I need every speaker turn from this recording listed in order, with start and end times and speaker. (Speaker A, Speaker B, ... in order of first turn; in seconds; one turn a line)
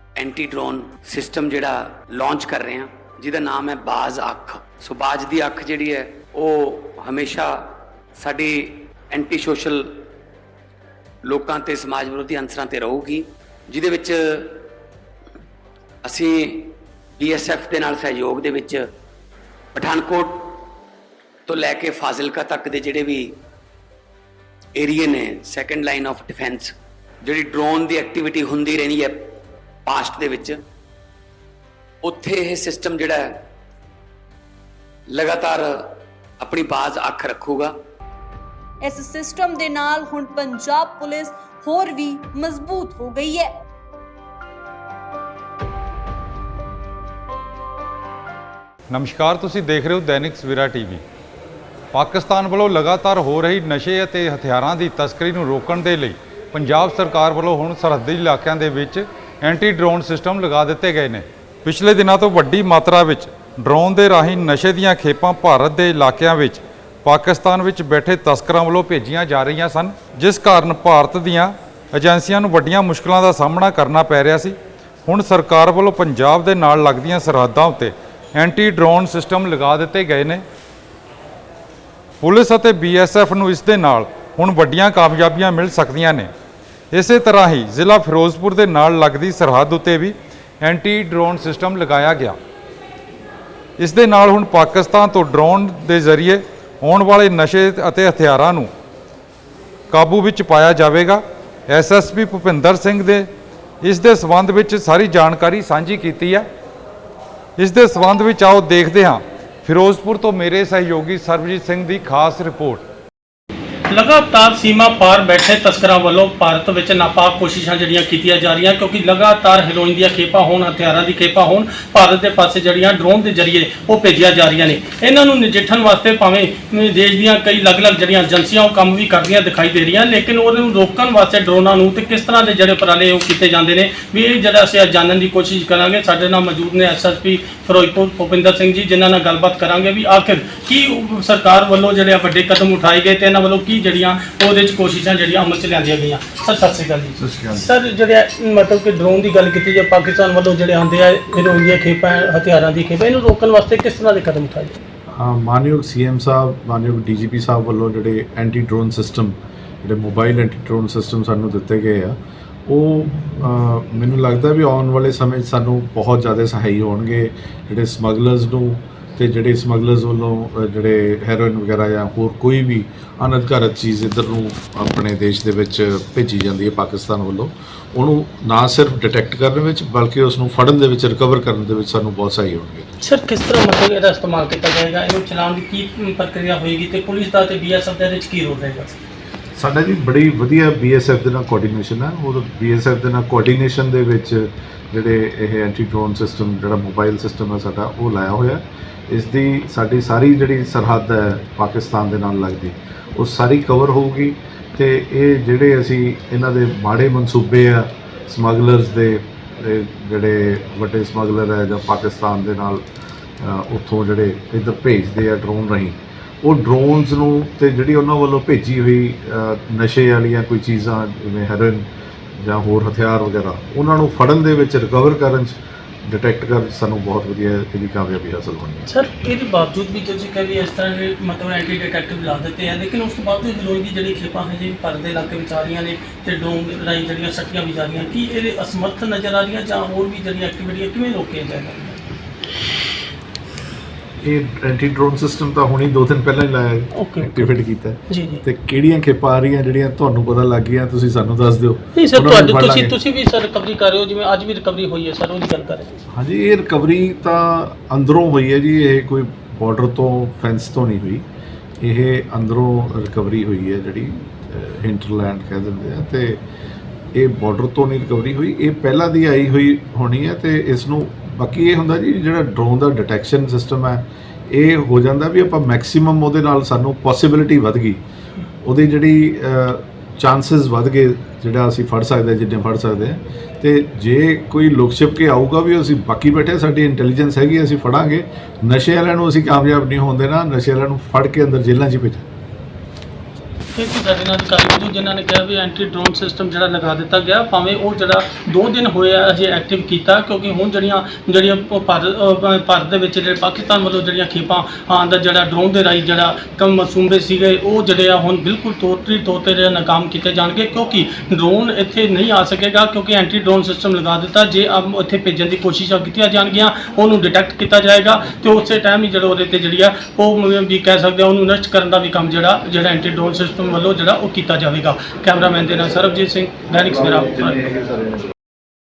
Speaker A: 0.2-7.5
Speaker A: 8.2-9.8
Speaker A: 11.3-14.2
Speaker A: 16.1-18.8
Speaker A: 19.8-20.4
Speaker A: 21.5-23.2
Speaker A: 24.8-26.7
Speaker A: 27.2-29.2
Speaker A: 29.9-30.6
Speaker A: 32.0-33.2
Speaker A: 35.2-35.7
Speaker A: 36.4-37.7
Speaker B: 38.8-43.5
Speaker C: 48.9-51.0
Speaker C: 51.9-80.4
Speaker C: 82.2-86.3
Speaker C: 86.9-92.4
Speaker C: 93.8-98.7
Speaker C: 99.9-103.3
Speaker C: 103.8-106.5
Speaker C: 107.6-112.8
Speaker D: 113.9-154.8
Speaker E: 147.2-147.7
Speaker E: 155.1-182.9
Speaker D: 183.0-189.0
Speaker E: 189.6-212.8
Speaker E: 213.4-228.9
Speaker D: 228.9-242.0
Speaker E: 244.2-252.9
Speaker D: 246.9-248.4
Speaker D: 252.0-256.0
Speaker E: 256.1-261.2
Speaker E: 261.8-266.4
Speaker E: 267.1-278.0
Speaker E: 278.6-292.3
Speaker D: 293.8-327.7
Speaker E: 327.7-328.2